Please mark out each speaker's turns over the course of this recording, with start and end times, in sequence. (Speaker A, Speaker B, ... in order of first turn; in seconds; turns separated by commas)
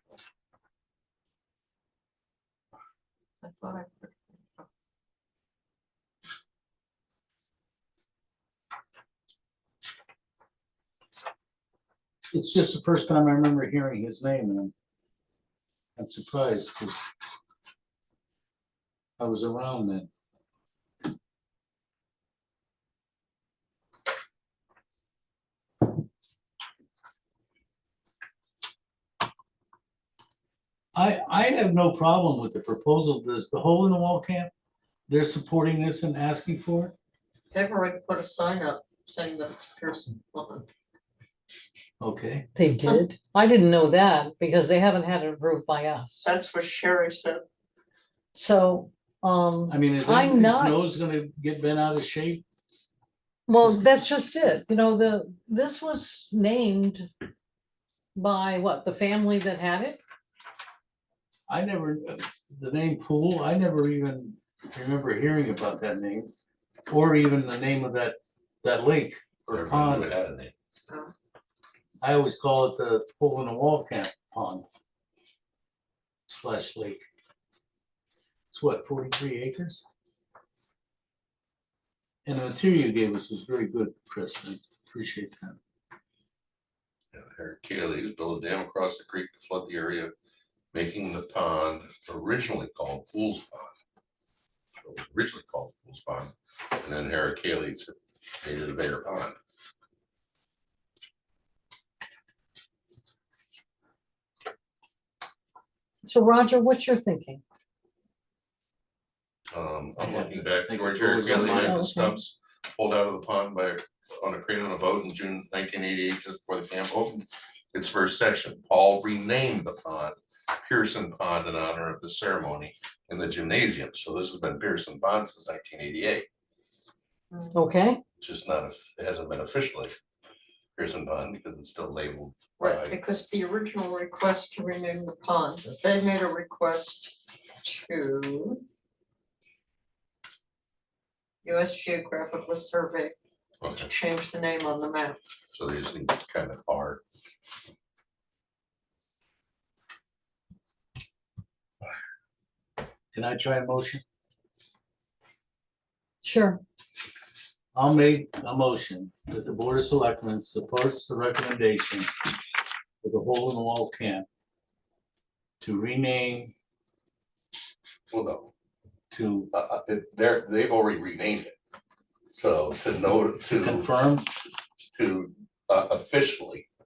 Speaker A: 3.4-4.6, Speaker B: 12.3-14.7, Speaker B: 16.0-17.0, Speaker B: 19.2-20.1, Speaker B: 30.9-34.5, Speaker B: 35.1-36.9, Speaker A: 37.5-40.7, Speaker B: 42.0-42.5, Speaker C: 42.5-46.3, Speaker A: 46.2-47.5, Speaker C: 48.3-50.8, Speaker B: 49.7-52.4, Speaker C: 53.5-57.1, Speaker B: 53.6-54.0, Speaker C: 58.1-60.0, Speaker B: 61.5-66.3, Speaker B: 66.9-70.1, Speaker D: 69.5-70.5, Speaker B: 72.0-74.6, Speaker B: 76.3-77.0, Speaker B: 78.5-79.8, Speaker B: 82.2-85.6, Speaker D: 87.1-90.1, Speaker D: 90.7-93.7, Speaker D: 94.8-99.3, Speaker C: 106.0-107.4, Speaker D: 109.5-126.2, Speaker B: 110.0-111.8, Speaker C: 111.3-112.2, Speaker A: 127.3-127.7, Speaker C: 127.5-128.0, Speaker D: 128.2-129.9, Speaker D: 130.8-133.0, Speaker A: 132.6-138.6, Speaker A: 141.4-143.1, Speaker D: 143.6-143.9, Speaker A: 143.8-145.2, Speaker D: 145.5-147.0, Speaker B: 153.1-154.0, Speaker C: 156.2-156.6, Speaker B: 157.7-162.1, Speaker B: 163.0-164.2, Speaker B: 165.6-166.5, Speaker D: 168.1-168.5, Speaker B: 169.1-169.5, Speaker D: 169.5-171.6, Speaker D: 172.3-173.9, Speaker B: 173.6-174.2, Speaker D: 174.9-176.7